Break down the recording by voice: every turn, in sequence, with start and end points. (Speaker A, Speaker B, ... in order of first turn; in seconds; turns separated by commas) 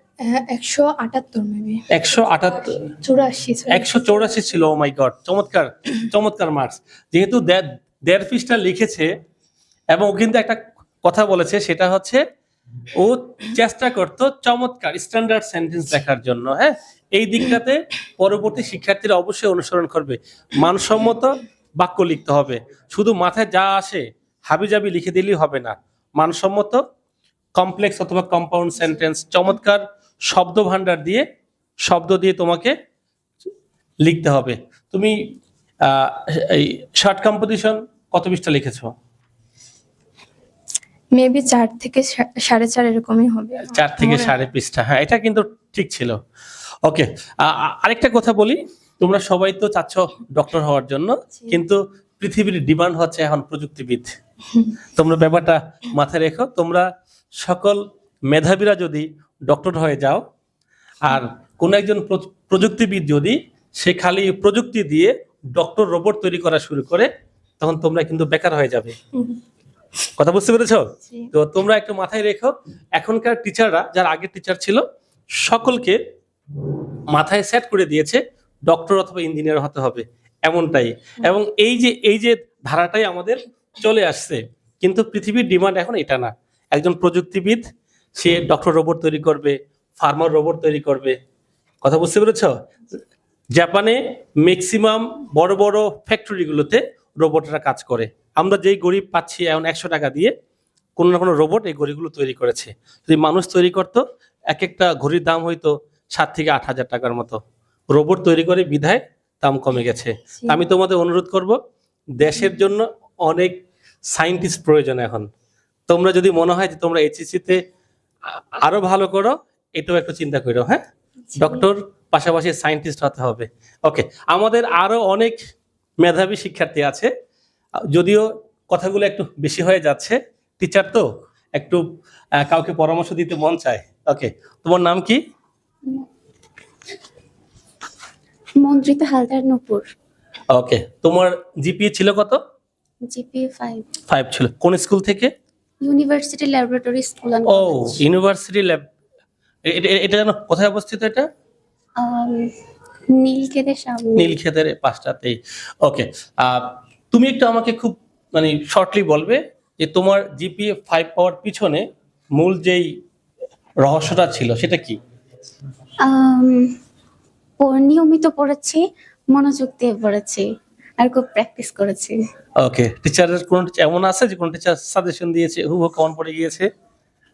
Speaker A: 0.2-1.8, Speaker B: 1.9-2.9, Speaker A: 3.0-4.1, Speaker B: 3.7-9.1, Speaker B: 9.9-12.2, Speaker B: 12.9-26.8, Speaker B: 27.6-31.2, Speaker B: 31.8-32.8, Speaker B: 34.0-38.9, Speaker A: 41.1-44.3, Speaker B: 43.6-46.2, Speaker B: 46.8-54.2, Speaker B: 54.9-60.2, Speaker B: 61.0-67.1, Speaker B: 67.6-69.0, Speaker B: 70.2-74.8, Speaker B: 75.4-76.0, Speaker B: 77.1-87.6, Speaker B: 88.2-91.2, Speaker B: 91.8-92.5, Speaker B: 93.5-100.3, Speaker B: 101.0-107.4, Speaker B: 107.9-111.6, Speaker B: 112.2-115.3, Speaker B: 115.9-117.6, Speaker B: 118.3-120.8, Speaker B: 121.3-125.4, Speaker B: 126.0-127.1, Speaker B: 127.9-131.8, Speaker B: 132.4-135.2, Speaker C: 138.6-139.9, Speaker B: 140.5-142.4, Speaker C: 143.0-143.9, Speaker B: 144.1-145.3, Speaker C: 145.8-148.0, Speaker B: 147.5-148.8, Speaker B: 149.7-151.3, Speaker C: 152.0-152.5, Speaker C: 153.1-154.3, Speaker B: 154.2-162.9, Speaker B: 163.8-165.0, Speaker C: 166.0-166.7, Speaker C: 167.6-170.4, Speaker C: 171.0-172.2, Speaker B: 172.6-176.7